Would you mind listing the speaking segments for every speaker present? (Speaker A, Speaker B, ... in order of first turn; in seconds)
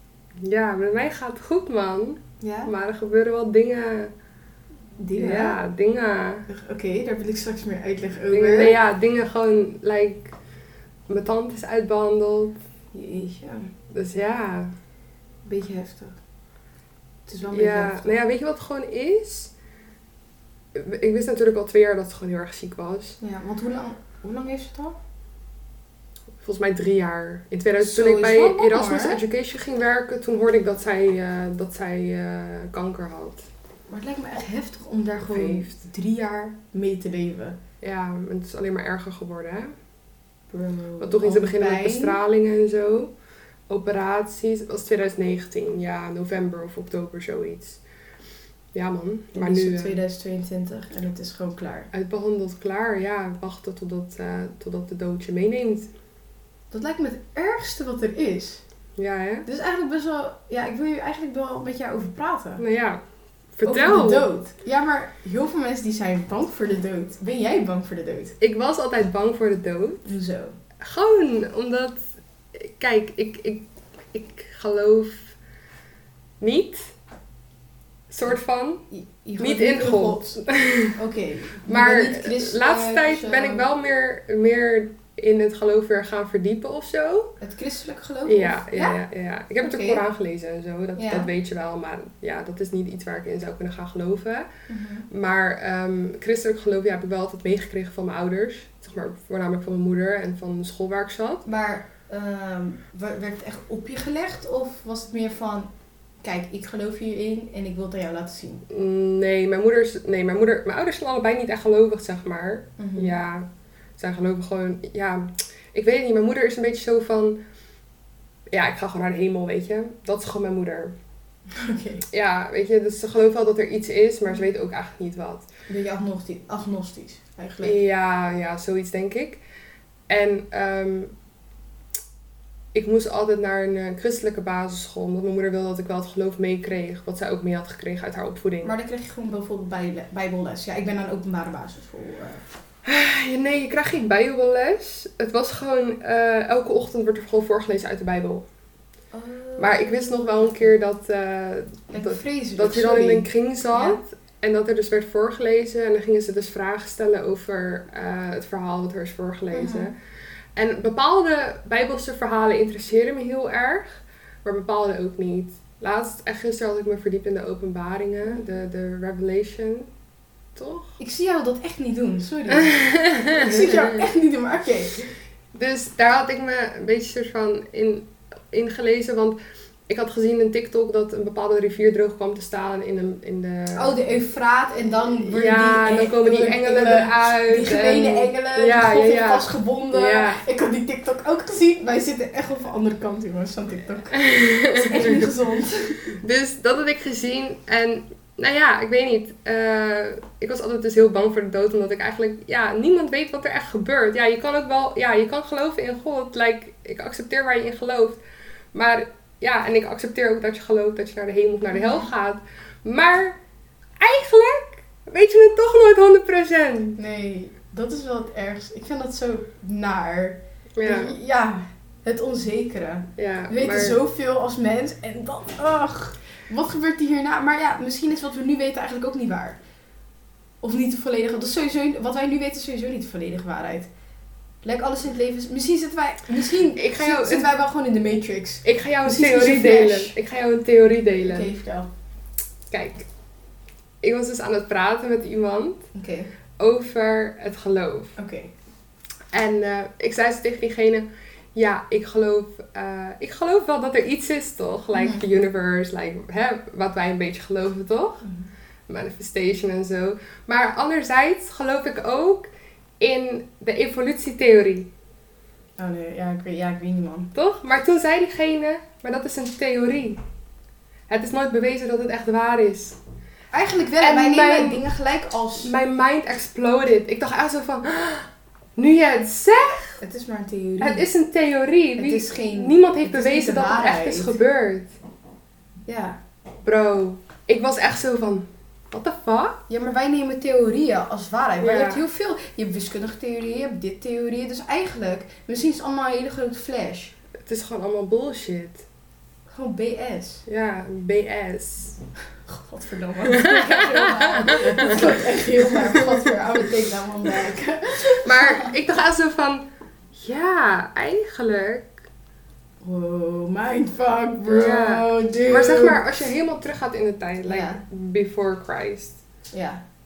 Speaker A: 0.4-4.1, 5.2-6.5, 8.3-10.3, 11.1-12.6, 13.9-14.7, 17.5-19.5, 20.7-23.2, 26.4-33.5, 35.3-35.8, 37.8-39.7, 41.0-43.1, 43.7-47.8, 48.7-50.0, 51.9-55.9, 59.0-59.5, 62.6-63.0, 63.6-64.3, 68.4-70.1, 70.8-72.0, 72.5-75.3, 76.4-76.9, 78.1-78.8, 79.4-81.0, 81.7-87.3, 88.2-94.5, 95.1-101.4, 108.7-113.5, 114.0-117.4, 118.5-120.9, 122.1-125.5, 127.6-129.4, 130.1-131.1, 132.7-138.7, 142.8-148.5, 149.6-159.9, 160.6-169.9, 170.6-170.9, 172.5-174.0, 175.5-179.4, 179.9-183.9, 185.1-190.4, 194.1-195.3, 196.1-208.2, 208.7-213.4, 214.0-217.0, 220.8-221.1, 223.2-224.0, 236.8-237.5, 238.7-241.5, 242.7-243.1, 244.0-245.8, 246.6-248.1, 249.3-258.2, 258.9-262.5, 263.0-264.9, 267.4-270.2, 271.1-273.0, 274.0-274.9, 275.6-280.0, 280.8-284.9, 286.6-289.6, 291.6-292.0, 297.4-298.8, 300.5-302.0, 303.3-306.6, 308.2-311.9, 314.5-319.2
Speaker B: 2.4-2.7, 5.0-5.6, 6.5-8.8, 12.9-13.7, 15.5-16.2, 17.3-18.1, 23.2-25.0, 27.8-29.2, 33.9-37.6, 40.5-42.2, 49.4-51.9, 56.7-58.6, 59.5-62.6, 63.6-68.3, 70.0-70.6, 78.9-80.4, 80.9-83.7, 87.4-89.0, 89.6-90.0, 91.0-91.3, 94.7-95.1, 101.5-105.7, 106.2-108.7, 112.8-113.2, 121.5-122.0, 125.7-127.8, 138.6-142.4, 149.1-150.8, 151.9-154.0, 159.5-159.9, 171.0-175.1, 183.7-196.2, 211.7-212.1, 217.0-229.6, 230.6-233.9, 234.6-240.2, 241.2-241.9, 245.9-246.3, 248.2-248.5, 254.9-255.2, 265.8-267.3, 273.5-275.7, 280.0-281.1, 282.0-284.4, 285.9-286.2, 289.7-297.1, 299.5-300.4, 302.5-308.8, 312.8-316.1, 317.5-317.8, 319.5-319.8